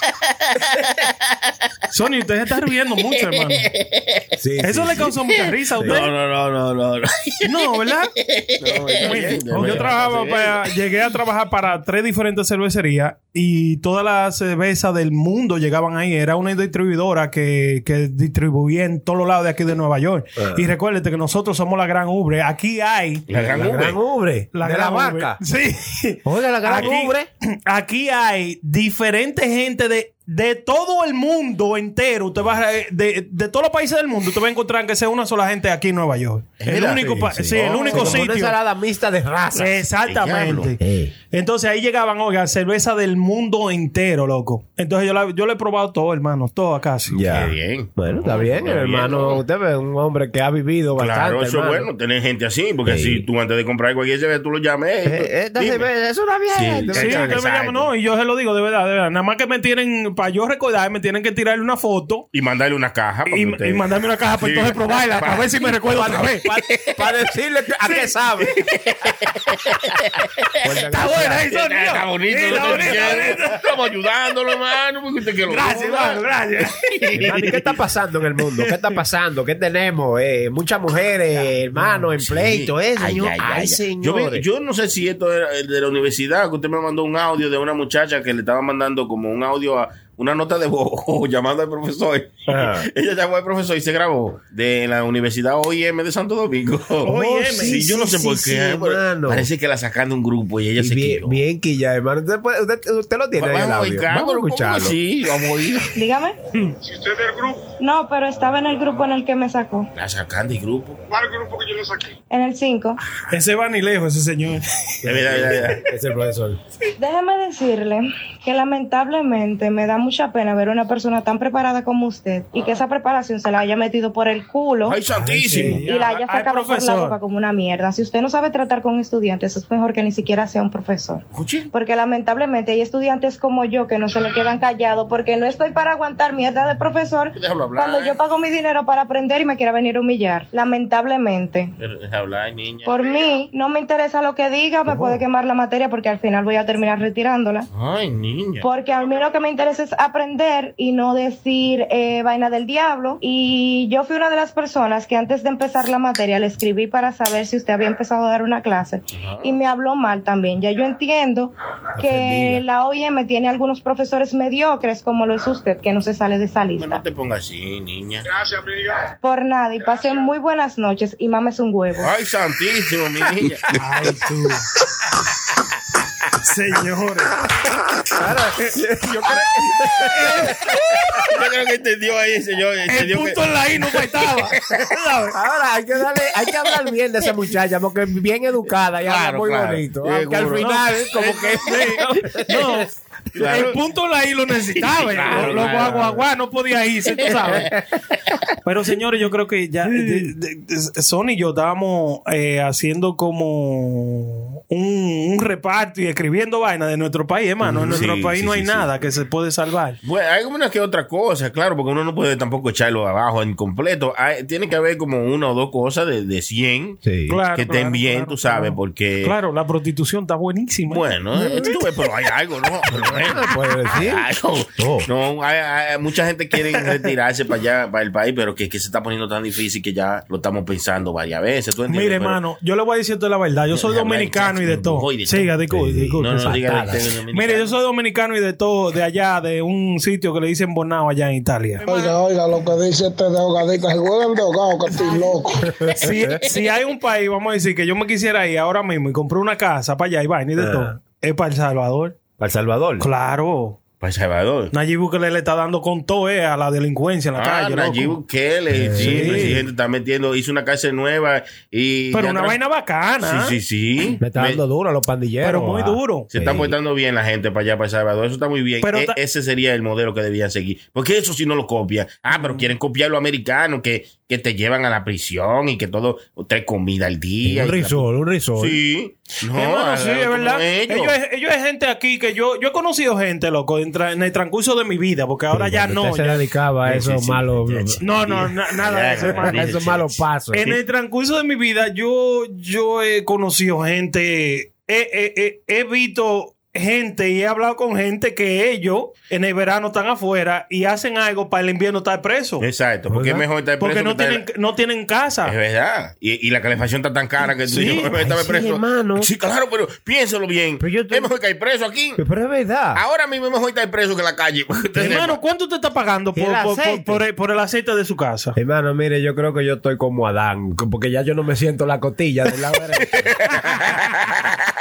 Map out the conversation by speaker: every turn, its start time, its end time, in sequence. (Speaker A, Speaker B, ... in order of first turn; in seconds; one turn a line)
Speaker A: 1.9-3.7
Speaker B: 3.4-4.2
Speaker C: 4.4-5.1
Speaker A: 4.6-6.1
Speaker C: 5.8-6.1
Speaker B: 5.8-7.6
Speaker A: 7.4-8.1
Speaker B: 8.3-10.7
Speaker A: 9.0-23.2
Speaker C: 9.5-9.9
Speaker C: 20.4-20.7
Speaker B: 23.3-24.0
Speaker C: 23.4-25.4
Speaker A: 24.5-38.5
Speaker C: 26.2-27.3
Speaker B: 36.6-38.2
Speaker C: 36.9-39.8
Speaker A: 39.5-40.8
Speaker B: 40.1-40.7
Speaker C: 40.8-41.1
Speaker A: 41.3-47.2
Speaker C: 47.1-51.9
Speaker B: 47.3-49.4
Speaker B: 51.0-55.9
Speaker C: 52.9-53.2
Speaker C: 55.0-57.4
Speaker B: 56.5-57.9
Speaker A: 56.9-62.2
Speaker B: 62.3-63.8
Speaker A: 63.3-66.5
Speaker B: 64.4-65.5
Speaker C: 65.9-68.6
Speaker A: 67.8-68.1
Speaker B: 68.6-70.1
Speaker C: 70.6-71.5
Speaker A: 70.9-73.6
Speaker B: 71.5-77.7
Speaker C: 72.6-73.0
Speaker A: 75.5-77.0
Speaker C: 77.1-84.4
Speaker A: 78.7-78.9
Speaker B: 81.8-101.4
Speaker C: 92.5-92.9
Speaker A: 97.0-98.2
Speaker C: 97.1-99.5
Speaker C: 100.8-105.0
Speaker B: 103.4-106.0
Speaker D: 106.0-106.4
Speaker D: 107.8-109.9
Speaker B: 110.0-111.0
Speaker D: 112.3-113.0
Speaker A: 113.3-114.9
Speaker B: 115.0-115.8
Speaker C: 115.0-116.6
Speaker D: 117.0-125.0
Speaker B: 124.8-125.8
Speaker C: 125.1-125.8
Speaker A: 125.5-127.2
Speaker D: 125.6-141.7
Speaker B: 131.3-131.7
Speaker B: 137.3-138.2
Speaker B: 141.8-143.3
Speaker D: 142.8-147.7
Speaker C: 144.9-145.2
Speaker B: 147.7-148.7
Speaker D: 148.6-167.0
Speaker B: 159.1-159.6
Speaker C: 162.0-162.6
Speaker B: 166.8-168.3
Speaker D: 169.2-172.1
Speaker B: 172.0-173.7
Speaker A: 173.8-174.7
Speaker A: 176.4-177.3
Speaker C: 178.1-181.2
Speaker B: 180.0-180.4
Speaker A: 180.7-181.0
Speaker B: 181.2-183.6
Speaker A: 182.9-185.4
Speaker C: 185.3-192.9
Speaker B: 189.0-191.8
Speaker A: 191.6-197.7
Speaker B: 193.3-193.8
Speaker B: 194.8-196.2
Speaker B: 197.3-197.7
Speaker A: 198.6-210.0
Speaker C: 207.6-208.1
Speaker B: 207.7-208.9
Speaker B: 210.0-217.0
Speaker C: 217.0-217.4
Speaker A: 217.3-221.1
Speaker B: 217.5-219.3
Speaker B: 220.9-232.4
Speaker C: 221.3-221.8
Speaker C: 222.9-224.2
Speaker C: 224.8-225.1
Speaker A: 231.9-236.3
Speaker B: 233.7-235.5
Speaker C: 235.7-237.1
Speaker B: 236.2-237.7
Speaker A: 237.3-242.1
Speaker E: 241.8-245.7
Speaker C: 245.7-246.4
Speaker A: 245.9-252.2
Speaker C: 250.6-250.9
Speaker C: 252.4-253.1
Speaker A: 253.0-253.8
Speaker B: 254.0-254.7
Speaker A: 254.7-258.2
Speaker B: 257.4-262.6
Speaker C: 258.7-259.6
Speaker A: 258.9-259.6
Speaker A: 262.1-263.5
Speaker B: 263.2-264.6
Speaker C: 264.2-266.7
Speaker A: 265.4-266.3
Speaker B: 266.3-281.1
Speaker A: 268.8-269.2
Speaker A: 272.3-272.7
Speaker C: 277.4-278.8
Speaker A: 279.5-286.4
Speaker C: 285.5-288.0
Speaker B: 286.8-290.8
Speaker A: 288.0-289.8
Speaker C: 289.2-290.7
Speaker A: 290.5-302.6
Speaker B: 302.6-304.4
Speaker C: 303.1-303.4
Speaker A: 303.8-305.5
Speaker B: 305.4-312.2
Speaker A: 307.7-308.1
Speaker C: 307.8-309.3
Speaker C: 310.8-311.3
Speaker C: 312.2-313.0
Speaker B: 312.9-315.4
Speaker A: 314.9-318.6
Speaker C: 316.3-317.2
Speaker C: 318.6-323.3
Speaker B: 323.1-324.5